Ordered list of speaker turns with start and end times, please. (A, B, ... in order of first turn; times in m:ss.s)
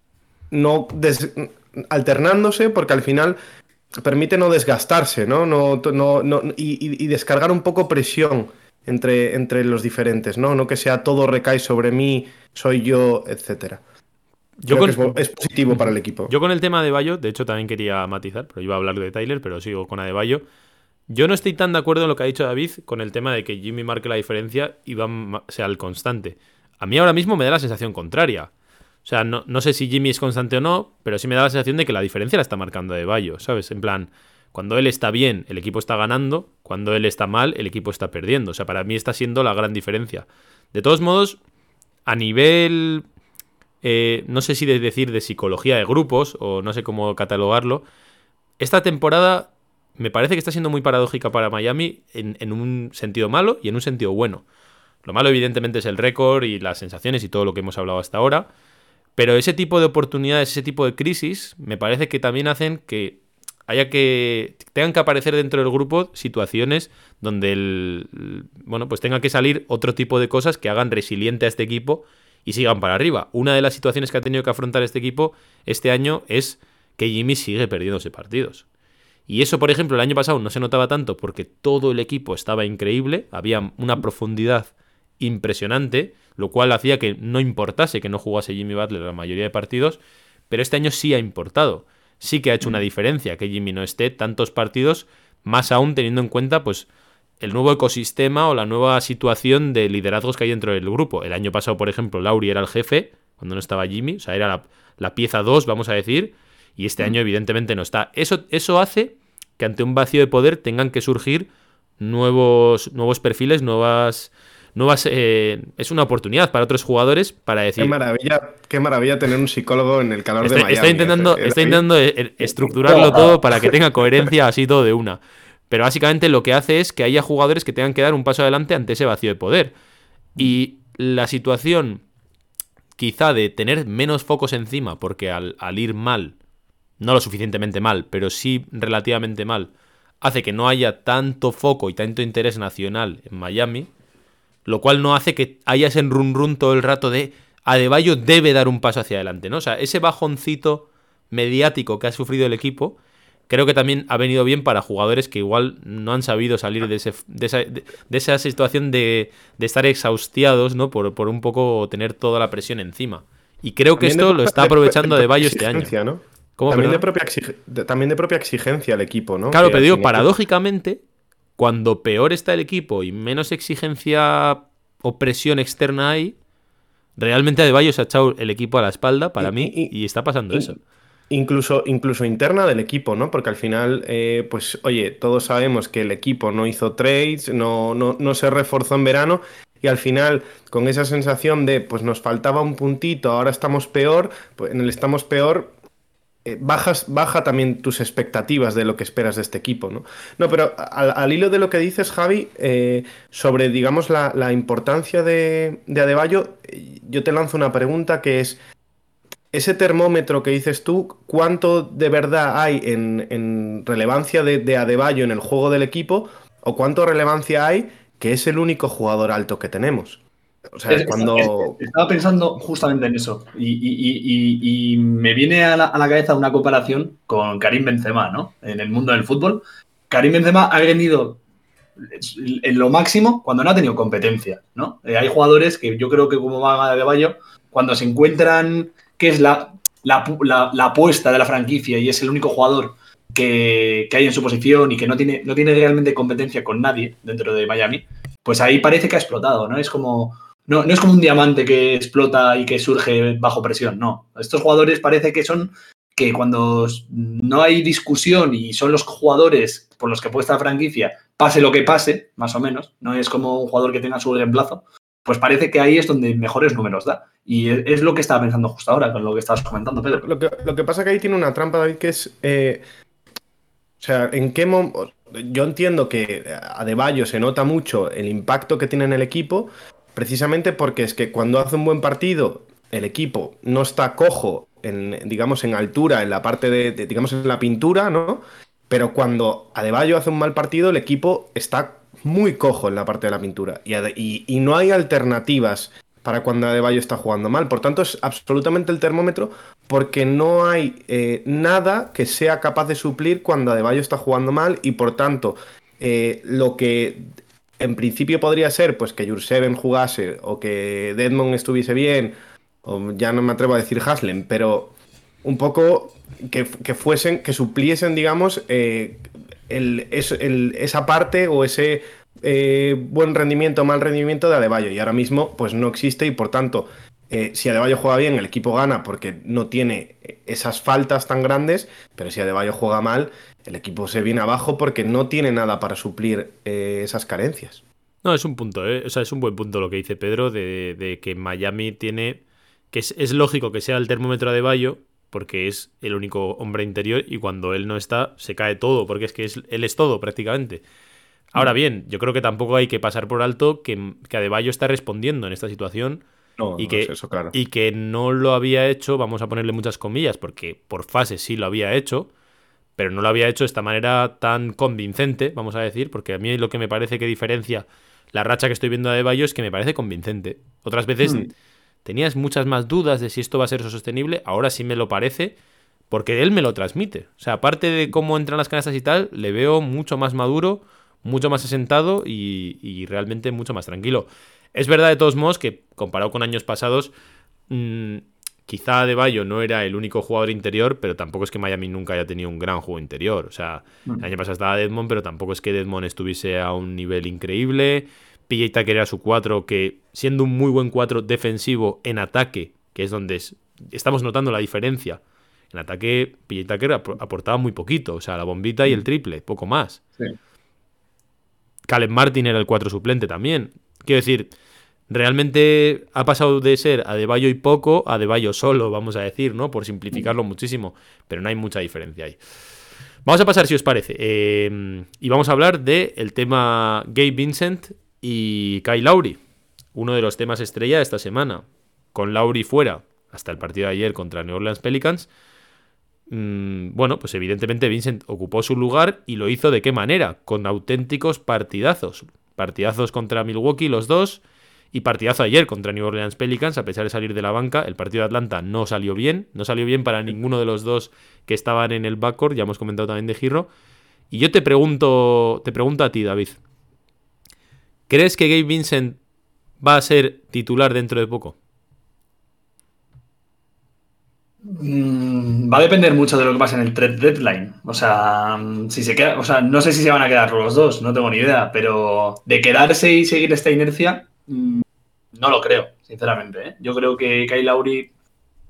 0:00.5-0:03.4 A
0:04.0-0:13.8 A
0:14.6-0:15.2 B
0:14.7-0:16.3 A
0:16.3-0:20.4 B
0:21.1-0:28.5 B
0:29.0-0:41.4 B
0:42.0-0:43.0 B
0:43.8-0:47.8 B
0:48.6-0:54.4 B
0:55.0-0:58.5 B
0:59.2-1:18.6 B
1:19.3-1:30.0 B
1:30.5-1:36.9 B
1:37.4-1:51.5 B
1:52.0-1:57.9 B
1:57.8-2:01.8 A
2:00.4-2:09.7 B
2:02.9-2:03.3 C
2:10.4-2:12.0 B
2:13.0-2:16.3 B
2:17.0-2:23.9 B
2:24.6-2:33.0 B
2:33.5-2:45.9 B
2:44.0-2:50.3 A
2:46.6-2:47.0 B
2:49.5-2:51.0 B
2:51.6-2:56.4 B
2:57.2-3:00.8 B
2:59.4-2:59.9 A
3:01.3-3:15.7 A
3:16.4-3:28.6 A
3:29.5-3:40.2 A
3:40.8-3:41.8 A
3:40.9-3:51.4 C
3:52.0-4:30.2 C
4:30.1-4:32.8 A
4:34.0-5:14.9 A
5:15.4-5:37.8 A
5:38.2-5:42.4 B
5:42.9-5:50.8 B
5:51.5-5:56.2 B
5:56.6-5:57.5 A
5:56.8-6:02.3 B
6:03.0-6:11.5 B
6:12.0-6:15.5 B
6:16.1-6:27.1 B
6:27.7-6:45.2 B
6:45.7-6:50.0 B
6:51.9-6:54.5 B
6:55.1-7:02.4 B
7:03.2-7:09.4 B
7:09.9-7:15.3 B
7:16.3-7:33.7 B
7:34.3-7:36.6 B
7:38.1-7:39.2 B
7:39.8-7:41.6 B
7:44.6-7:54.8 C
7:55.3-7:58.1 C